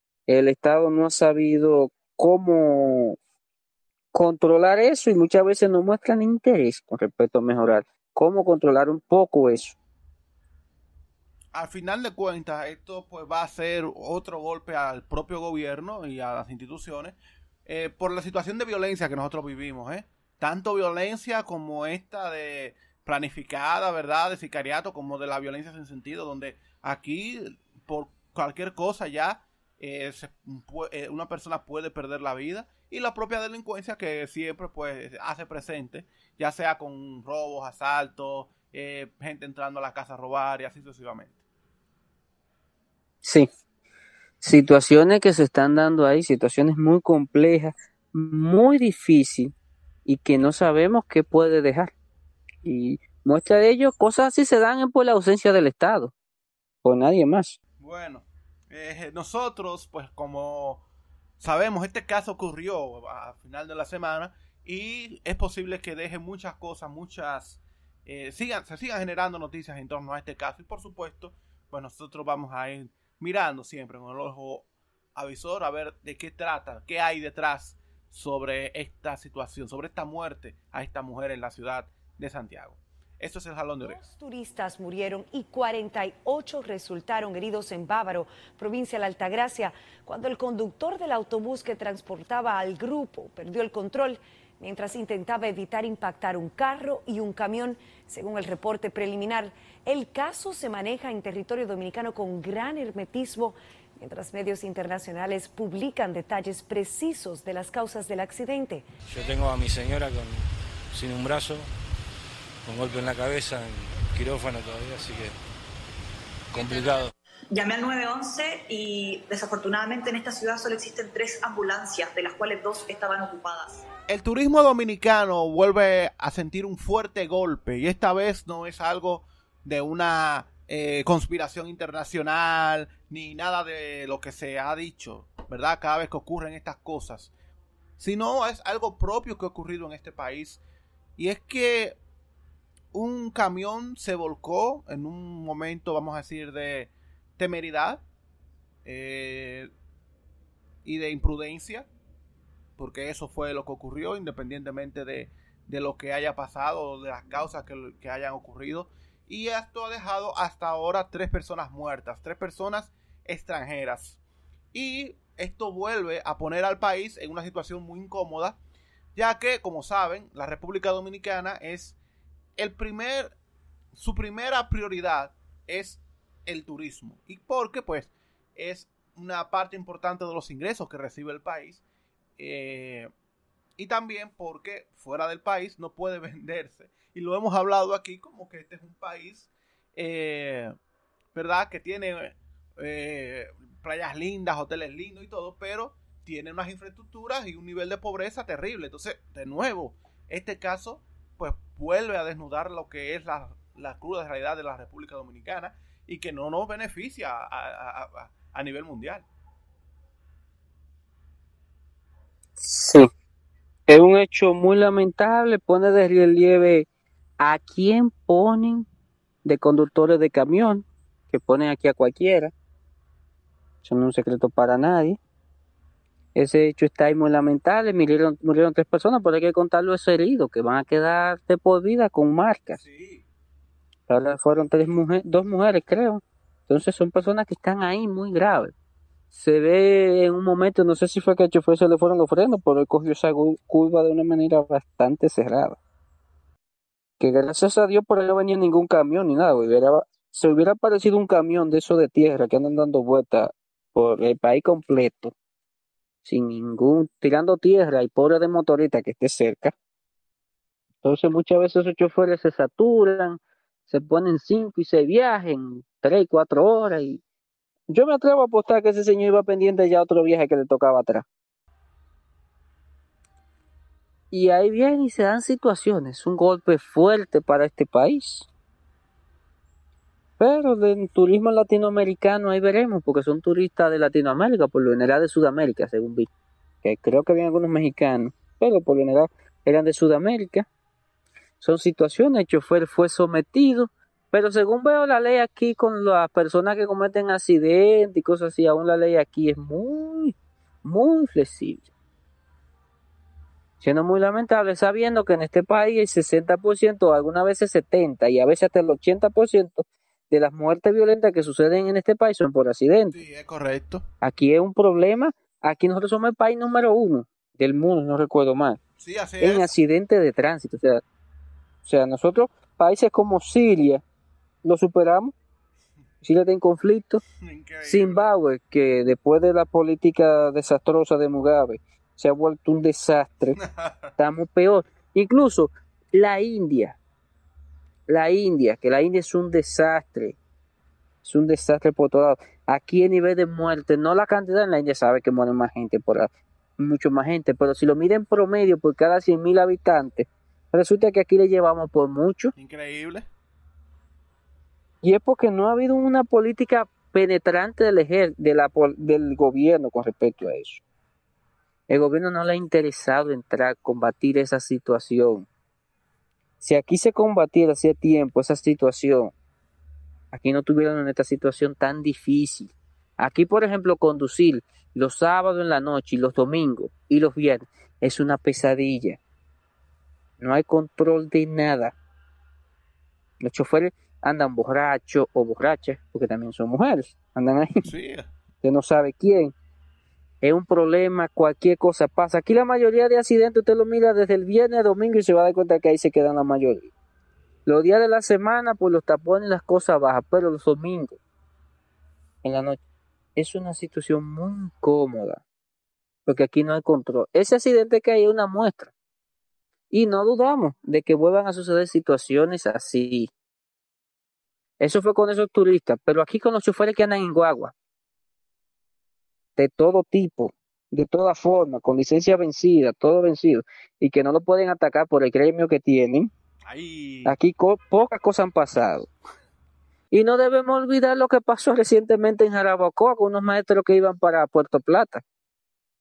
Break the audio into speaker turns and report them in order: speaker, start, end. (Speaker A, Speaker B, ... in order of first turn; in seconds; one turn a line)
Speaker A: 0.3-3.2
Speaker A: 4.1-9.8
Speaker B: 11.5-41.4
Speaker A: 43.2-43.5
Speaker A: 44.4-49.5
Speaker A: 50.0-51.9
Speaker A: 52.6-56.1
Speaker A: 56.8-57.6
Speaker B: 57.8-60.8
Speaker B: 61.4-84.1
Speaker C: 83.8-108.9
Speaker D: 109.1-111.7
Speaker D: 112.6-115.4
Speaker D: 116.5-117.1
Speaker E: 117.5-123.8
Speaker B: 124.1-137.3
Speaker B: 138.0-140.6
Speaker B: 141.2-142.0
Speaker B: 142.9-148.0
Speaker B: 148.8-149.7
Speaker B: 150.8-151.9
Speaker B: 152.8-164.2
Speaker B: 164.7-168.6
Speaker B: 169.1-172.0
Speaker B: 172.6-173.3
Speaker B: 173.9-181.8
Speaker B: 182.4-183.1
Speaker B: 183.8-190.7
Speaker B: 191.3-209.2
Speaker A: 212.6-213.1
Speaker A: 213.9-216.8
Speaker A: 217.4-218.8
Speaker A: 219.4-222.5
Speaker A: 223.8-225.2
Speaker A: 226.3-232.8
Speaker B: 232.8-233.2
Speaker A: 234.1-238.7
Speaker A: 239.3-245.8
Speaker A: 247.2-255.3
Speaker A: 256.2-259.7
Speaker A: 261.0-267.2
Speaker A: 267.9-271.2
Speaker A: 274.3-278.5
Speaker A: 280.4-286.3
Speaker A: 286.8-290.7
Speaker A: 291.6-301.9
Speaker A: 303.8-313.1
Speaker B: 313.1-314.1
Speaker A: 314.2-318.8
Speaker B: 319.0-319.7
Speaker A: 319.4-321.0
Speaker A: 321.8-324.0
Speaker A: 324.6-325.3
Speaker A: 326.2-327.2
Speaker B: 327.4-328.2
Speaker A: 327.8-333.6
Speaker B: 333.6-334.1
Speaker A: 334.2-337.0
Speaker A: 338.1-340.4
Speaker A: 341.2-352.5
Speaker B: 352.6-353.3
Speaker A: 355.0-360.8
Speaker A: 361.9-365.5
Speaker A: 366.6-369.3
Speaker A: 370.3-379.2
Speaker A: 380.4-381.9
Speaker A: 383.4-387.8
Speaker B: 387.8-388.3
Speaker A: 388.6-389.5
Speaker A: 390.4-396.9
Speaker A: 397.6-401.2
Speaker A: 402.4-402.8
Speaker A: 403.4-405.4
Speaker A: 406.2-408.9
Speaker A: 409.9-413.3
Speaker A: 414.8-417.7
Speaker A: 419.6-426.3
Speaker B: 426.6-427.3
Speaker A: 427.2-429.1
Speaker A: 430.1-435.2